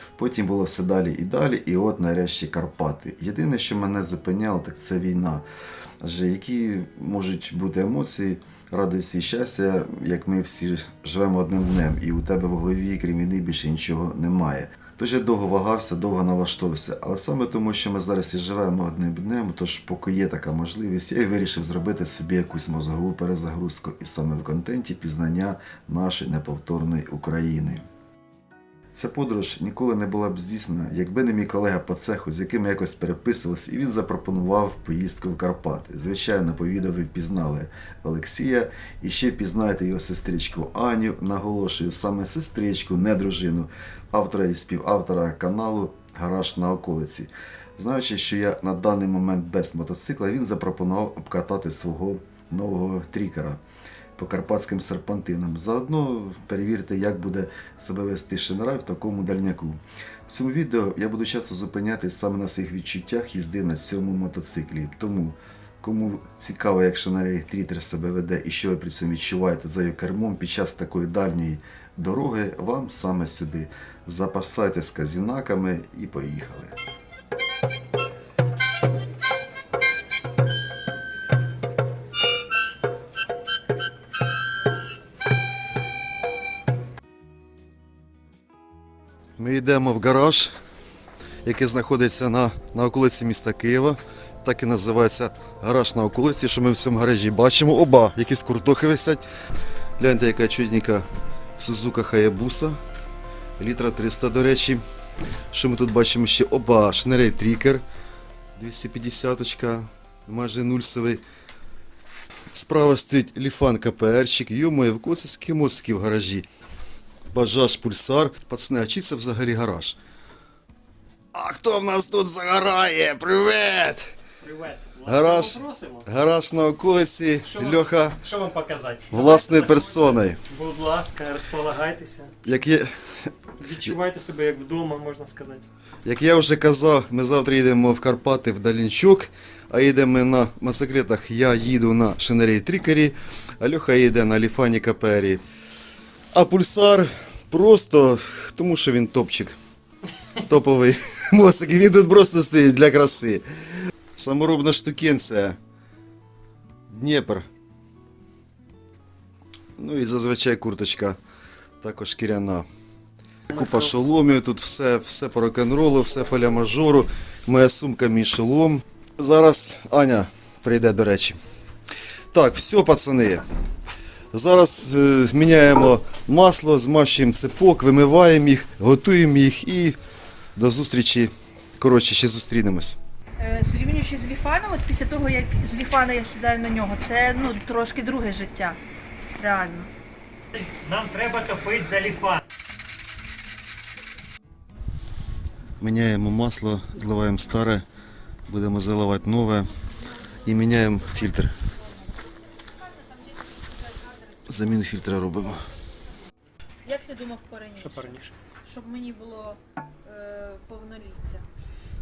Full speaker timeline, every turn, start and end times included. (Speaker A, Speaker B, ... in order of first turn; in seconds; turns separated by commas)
Speaker A: 0.2-5.5, Speaker A: 6.0-27.9, Speaker A: 28.9-53.6, Speaker A: 54.2-76.8, Speaker A: 89.4-90.5, Speaker A: 91.5-99.2, Speaker A: 100.0-101.1, Speaker A: 101.6-102.8, Speaker A: 103.6-104.8, Speaker A: 105.5-107.8, Speaker A: 108.6-111.2, Speaker A: 112.5-116.5, Speaker A: 117.3-120.0, Speaker A: 121.3-124.1, Speaker B: 124.4-126.1, Speaker A: 125.1-128.2, Speaker B: 127.4-132.3, Speaker A: 129.1-130.4, Speaker A: 132.4-133.9, Speaker B: 133.6-135.7, Speaker A: 136.1-145.4, Speaker A: 146.3-149.6, Speaker A: 150.4-153.4, Speaker A: 154.2-155.6, Speaker A: 156.9-157.5, Speaker A: 159.8-161.2, Speaker A: 161.8-162.7, Speaker A: 163.5-171.4, Speaker A: 172.3-173.4, Speaker A: 174.3-180.0, Speaker A: 180.6-183.0, Speaker C: 183.4-188.8, Speaker C: 189.4-189.9, Speaker B: 190.5-192.5, Speaker A: 195.8-197.8, Speaker A: 198.5-199.7, Speaker A: 200.4-201.6, Speaker C: 203.0-204.1, Speaker A: 204.5-205.6, Speaker C: 206.8-208.1, Speaker B: 207.8-208.4, Speaker C: 208.6-211.5